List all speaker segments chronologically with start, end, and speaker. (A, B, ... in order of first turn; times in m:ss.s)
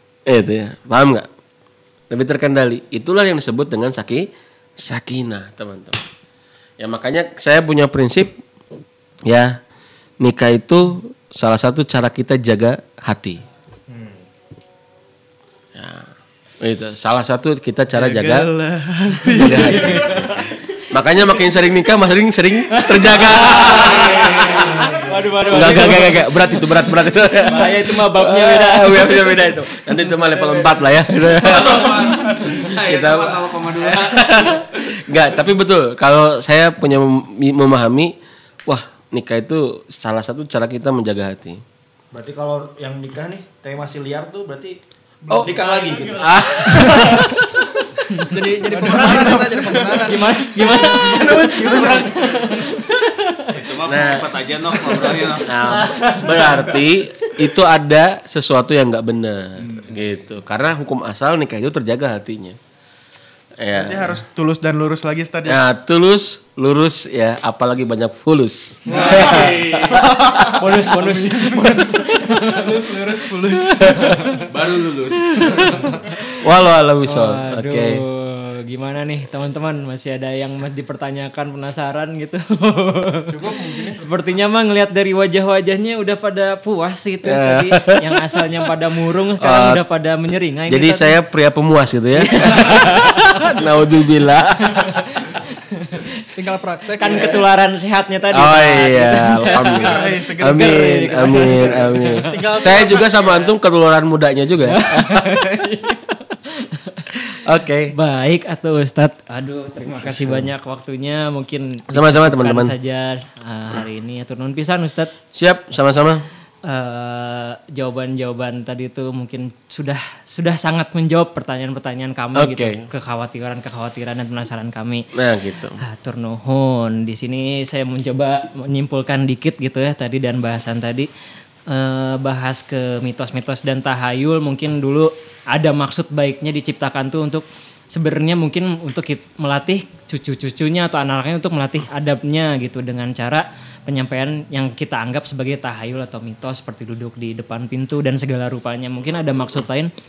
0:00.3-0:01.3 A
0:02.1-0:04.3 A
0:04.8-0:06.0 A
0:06.8-0:08.3 A
0:09.2-0:09.6 A
0:10.2-0:13.4 A
0:13.9-0:14.2 B
0:15.7-0:16.0 A
0:16.6-0:18.5 A
0:17.9-0:20.4 C
0:19.4-0:24.8 A
0:19.4-0:20.3 D
0:22.7-0:26.8 D
0:23.6-0:24.8 E
0:24.6-0:25.1 C
0:25.5-0:38.1 A
0:27.4-0:30.6 D
0:31.3-0:34.6 E
0:38.6-0:41.6 A
0:42.1-0:44.8 B
0:45.3-0:45.6 A
0:45.3-0:47.3 B
0:46.2-0:47.2 A
0:46.6-0:47.4 D
0:48.3-0:52.2 F
0:48.7-0:49.9 C
0:48.8-0:53.6 D
0:50.7-0:52.3 C
0:53.5-0:55.8 E
0:53.9-0:54.3 A
0:55.4-1:02.6 A
0:55.6-0:56.6 D
1:03.6-1:04.2 A
1:03.7-1:05.6 C
1:05.4-1:10.8 A
1:08.9-1:10.1 E
1:08.9-1:11.9 C
1:09.0-1:09.5 D
1:10.2-1:13.0 D
1:12.4-1:14.4 C
1:13.8-1:14.3 D
1:14.5-1:15.6 E
1:15.4-1:15.9 D
1:15.6-1:16.0 C
1:16.4-1:18.0 A
1:17.1-1:31.2 D
1:23.3-1:24.0 C
1:27.2-1:27.9 A
1:29.4-1:29.8 A
1:30.7-1:35.0 A
1:32.2-1:33.6 D
1:34.7-1:36.1 D
1:36.4-1:37.4 F
1:37.0-1:42.9 D
1:38.3-1:45.4 A
1:39.4-1:43.5 C
1:44.7-1:47.2 D
1:47.4-1:47.9 A
1:47.9-1:55.1 D
1:49.9-1:50.5 A
1:51.9-1:52.7 A
1:55.3-1:56.2 A
1:56.6-2:05.1 D
2:02.4-2:02.8 A
2:05.1-2:05.8 A
2:05.8-2:11.1 D
2:11.7-2:29.9 D